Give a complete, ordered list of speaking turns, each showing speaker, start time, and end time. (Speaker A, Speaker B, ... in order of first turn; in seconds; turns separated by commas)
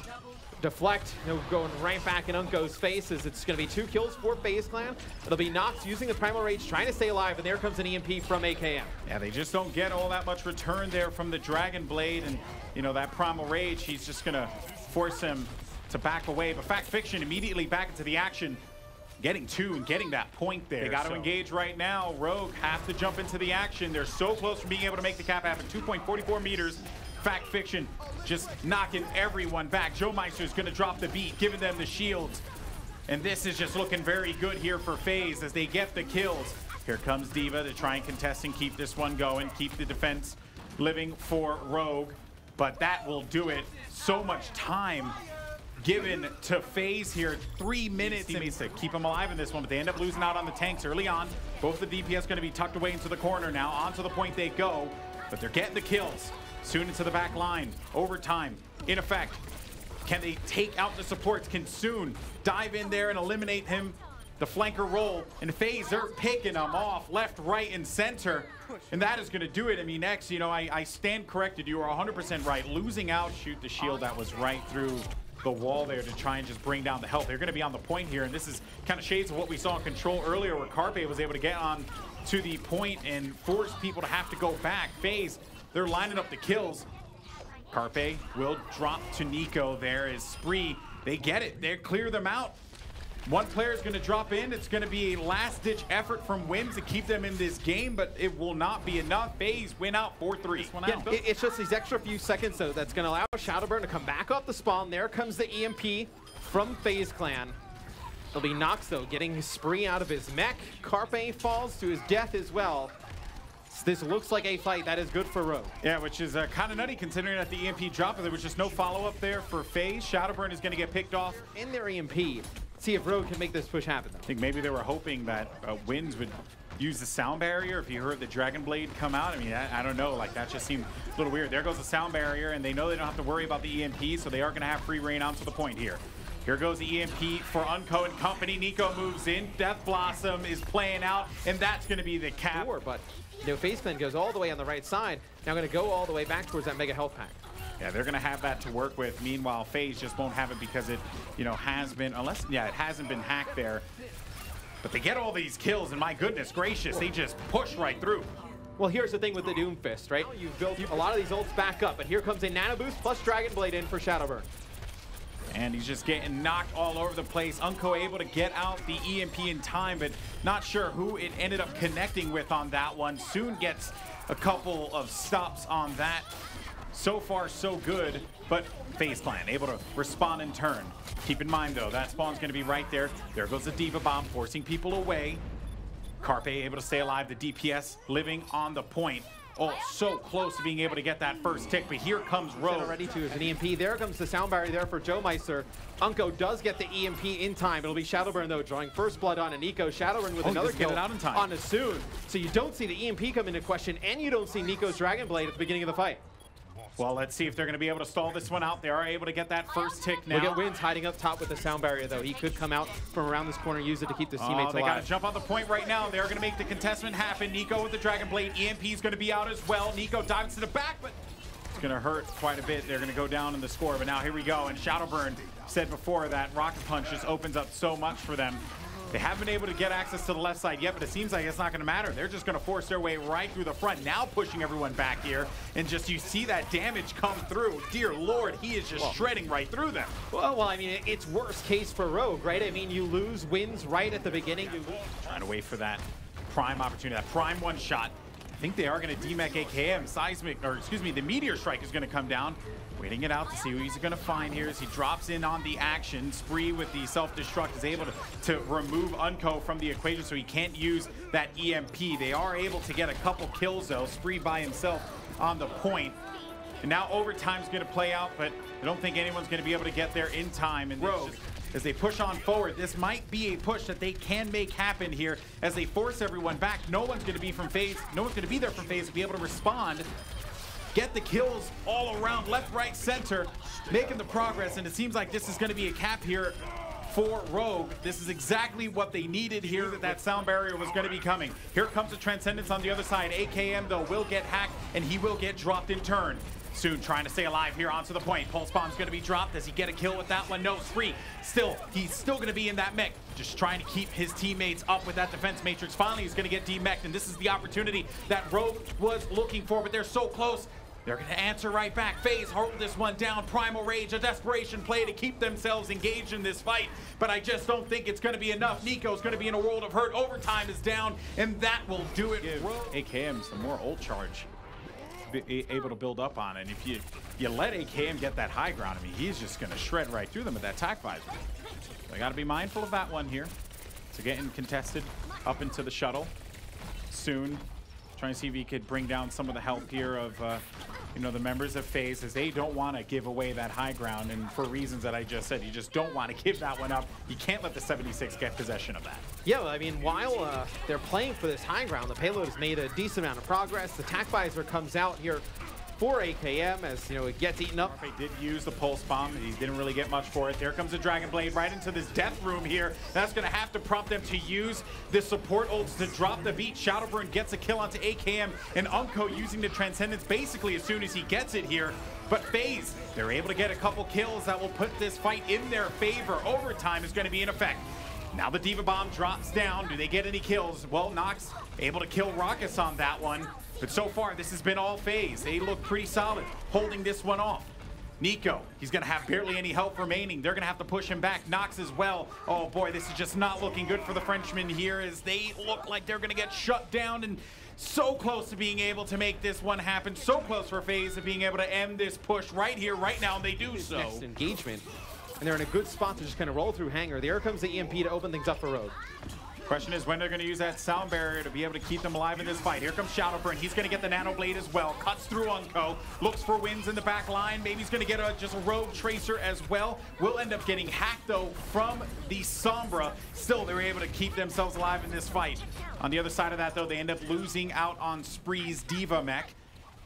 Speaker A: 0.6-8.9, Speaker B: 9.1-18.6, Speaker B: 19.2-32.4, Speaker B: 33.1-45.2, Speaker B: 45.8-59.4, Speaker A: 48.0-48.5, Speaker B: 60.0-86.9, Speaker B: 87.7-92.6, Speaker B: 93.3-101.2, Speaker A: 100.6-107.6, Speaker A: 108.3-113.0, Speaker A: 113.7-115.7, Speaker B: 115.8-121.4, Speaker A: 121.5-124.3, Speaker B: 124.3-142.7, Speaker A: 142.5-147.4, Speaker B: 147.8-153.8, Speaker B: 154.8-158.3, Speaker A: 158.8-164.5, Speaker B: 165.5-176.3, Speaker B: 176.9-185.4, Speaker B: 186.2-193.0, Speaker A: 192.6-206.2, Speaker B: 200.4-201.5, Speaker B: 207.0-210.6, Speaker A: 210.3-215.1, Speaker B: 214.4-221.2, Speaker B: 221.8-240.2, Speaker A: 240.3-245.0, Speaker B: 245.0-266.2, Speaker B: 266.8-280.1, Speaker A: 271.0-271.3, Speaker B: 280.9-324.5, Speaker B: 325.3-331.4, Speaker B: 332.1-333.5, Speaker B: 334.1-336.3, Speaker B: 337.1-337.6, Speaker B: 338.2-340.6, Speaker B: 341.1-349.3, Speaker A: 349.4-355.4, Speaker A: 356.0-357.9, Speaker B: 357.8-404.2, Speaker A: 403.8-404.9, Speaker A: 405.4-408.9, Speaker B: 409.7-429.6